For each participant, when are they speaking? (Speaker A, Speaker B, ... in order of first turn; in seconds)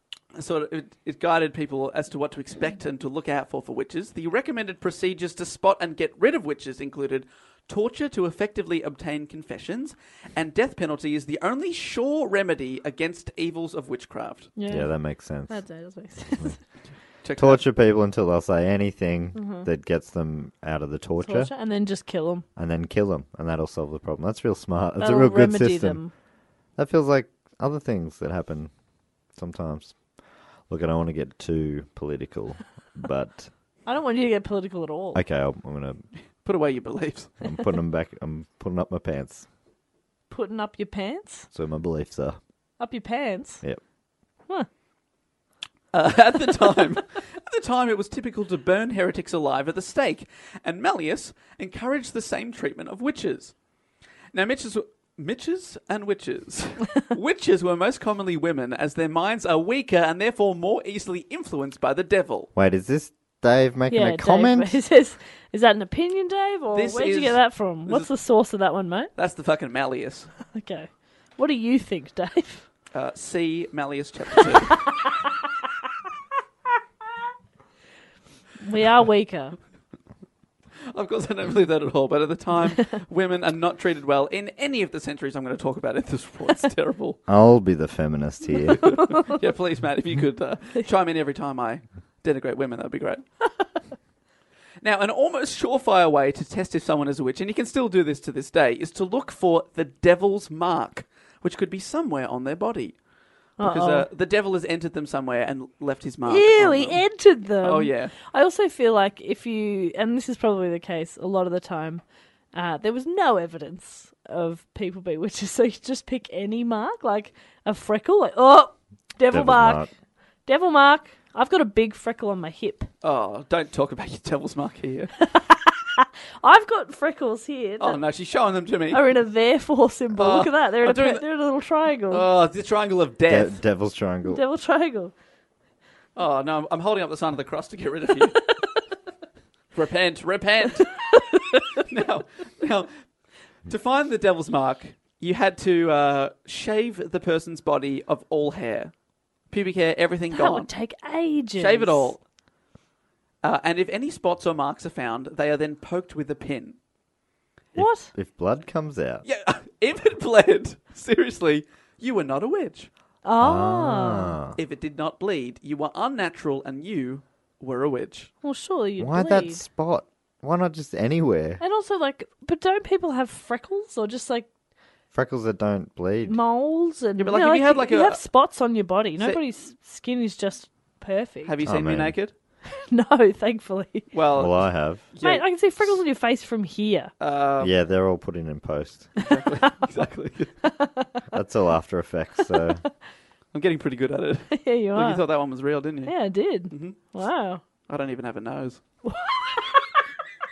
Speaker A: 0.4-14.5, 17.2-17.6, 36.4-37.3, 45.9-53.6, 54.3-62.5, 66.7-68.1, 69.2-70.3, 72.9-74.9, 80.9-87.2, 88.8-93.2, 94.8-103.0, 103.6-107.0, 107.6-108.1, 123.0-125.1, 127.8-129.1, 130.2-131.2, 132.1-133.6, 136.2-138.5, 139.7-141.1, 141.8-142.9, 143.7-148.9, 149.5-150.7, 151.6-152.2, 153.4-156.8, 159.2-162.9, 164.6-168.3, 177.2-178.2, 179.2-179.4, 181.4-182.3, 184.1-185.9, 187.2-187.7, 189.2-190.6, 193.5-197.0, 197.9-198.8
Speaker B: 14.6-16.6, 19.4-19.7, 21.2-22.4, 25.0-26.1, 33.9-35.2, 40.3-41.5, 42.8-43.6, 63.9-69.1, 70.5-72.7, 78.6-79.6, 103.6-104.1, 106.3-119.9, 120.5-122.9, 125.2-128.0, 128.9-132.2, 134.3-135.1, 150.3-152.1, 157.8-158.1, 163.2-164.4, 168.4-169.6, 171.6-174.5, 176.3-181.6, 182.8-184.1, 185.2-187.1, 190.7-191.2, 194.5-195.2, 196.1-197.6, 199.1-199.7
Speaker C: 14.7-15.6, 16.3-16.6, 17.4-21.5, 22.6-26.0, 26.8-28.7, 29.4-30.0, 30.7-33.5, 35.1-36.0, 37.4-39.5, 41.5-42.4, 62.6-64.8, 87.3-89.0, 119.3-119.9, 133.3-134.4, 157.8-159.2, 163.4-164.6, 169.0-171.6, 175.1-176.4, 181.7-182.2, 184.3-185.0, 187.6-189.1, 191.3-192.8